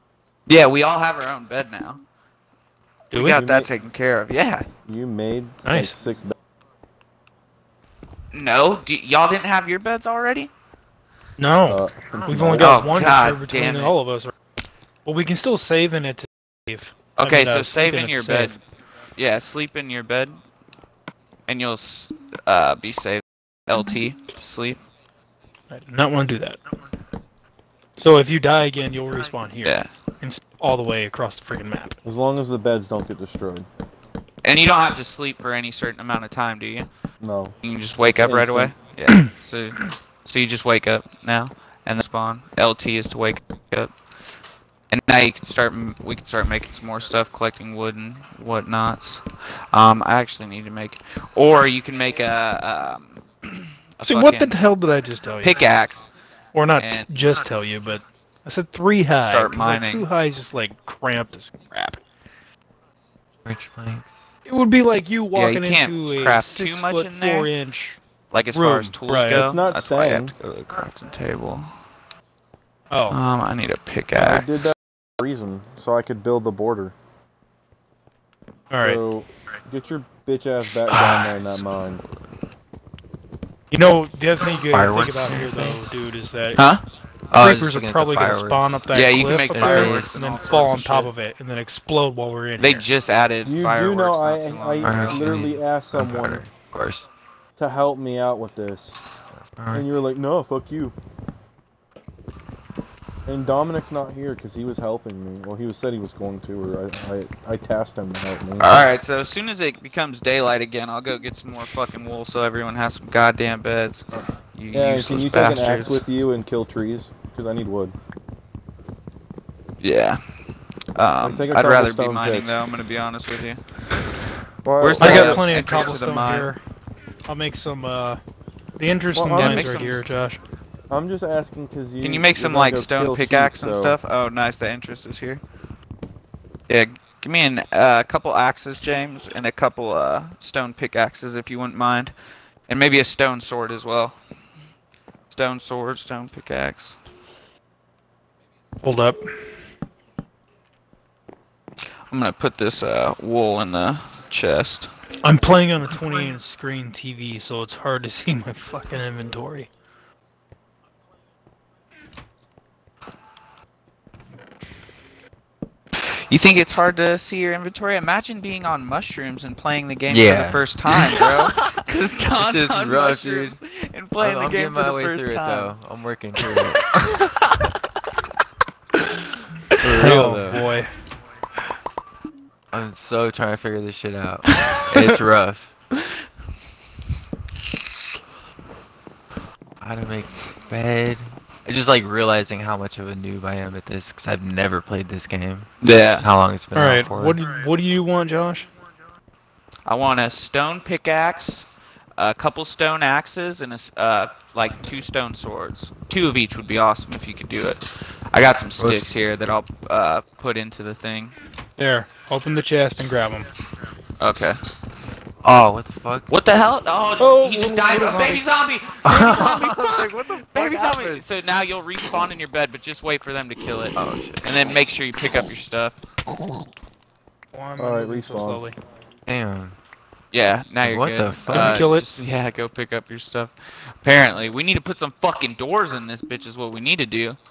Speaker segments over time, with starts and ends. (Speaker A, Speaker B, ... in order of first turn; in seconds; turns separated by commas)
Speaker A: 0.5-2.0, Speaker B: 3.1-3.5, Speaker A: 3.1-4.7, Speaker C: 3.3-3.7, Speaker C: 4.9-6.3, Speaker B: 5.6-6.0, Speaker A: 8.3-10.5, Speaker B: 11.4-14.3, Speaker C: 11.7-13.1, Speaker A: 12.6-13.9, Speaker B: 15.0-18.6, Speaker A: 17.1-18.6, Speaker A: 19.2-20.4, Speaker A: 21.5-24.8, Speaker B: 25.7-26.6, Speaker B: 28.0-31.9, Speaker A: 29.6-29.9, Speaker C: 32.0-33.7, Speaker A: 34.4-36.9, Speaker C: 37.2-37.5, Speaker A: 37.6-43.9, Speaker C: 38.2-38.7, Speaker A: 44.9-54.5, Speaker B: 54.0-55.6, Speaker A: 55.4-56.1, Speaker B: 56.5-62.0, Speaker A: 56.8-57.1, Speaker A: 59.2-60.1, Speaker D: 63.4-64.2, Speaker B: 64.5-68.0, Speaker A: 65.3-67.5, Speaker A: 68.3-71.7, Speaker B: 68.5-69.5, Speaker C: 69.3-70.3, Speaker B: 72.9-73.2, Speaker A: 73.1-74.6, Speaker C: 74.2-76.9, Speaker B: 78.7-79.0, Speaker C: 78.8-82.0, Speaker B: 80.9-81.3, Speaker B: 83.7-86.6, Speaker D: 84.7-86.0, Speaker A: 86.5-86.8, Speaker D: 87.3-88.9, Speaker B: 87.3-92.9, Speaker A: 88.9-91.1, Speaker D: 89.5-90.1, Speaker A: 92.6-95.3, Speaker C: 93.4-96.4, Speaker D: 94.8-97.1, Speaker C: 97.6-99.0, Speaker D: 99.4-99.9, Speaker C: 99.7-100.9, Speaker C: 103.3-108.8, Speaker A: 108.6-116.0, Speaker C: 114.7-117.9, Speaker A: 119.8-120.2, Speaker A: 121.0-123.6, Speaker C: 121.2-122.6, Speaker C: 124.6-125.5, Speaker A: 124.8-126.5, Speaker B: 125.0-126.6, Speaker B: 127.3-128.2, Speaker B: 128.8-130.4, Speaker C: 129.1-129.7, Speaker A: 129.3-130.0, Speaker C: 130.9-134.0, Speaker A: 132.0-135.4, Speaker A: 136.7-142.1, Speaker A: 142.7-144.2, Speaker A: 145.3-147.0, Speaker B: 148.8-149.2, Speaker A: 152.1-154.9, Speaker B: 155.2-159.7, Speaker A: 166.0-175.8, Speaker D: 170.1-171.6, Speaker D: 172.3-173.6, Speaker D: 174.2-177.3, Speaker D: 179.8-180.7, Speaker B: 179.9-180.9, Speaker D: 182.7-185.7, Speaker A: 184.6-185.2, Speaker D: 189.8-197.4, Speaker A: 195.8-196.2, Speaker B: 196.7-198.7, Speaker A: 199.8-211.3, Speaker D: 208.8-209.1, Speaker B: 211.8-213.5, Speaker A: 214.2-214.6, Speaker D: 215.4-216.3, Speaker A: 216.3-226.0, Speaker B: 217.2-218.4, Speaker D: 219.0-221.2, Speaker D: 224.0-224.6, Speaker B: 227.5-228.8, Speaker C: 227.8-228.6, Speaker D: 229.3-229.8, Speaker A: 230.3-237.4, Speaker D: 230.8-231.9, Speaker B: 231.5-232.1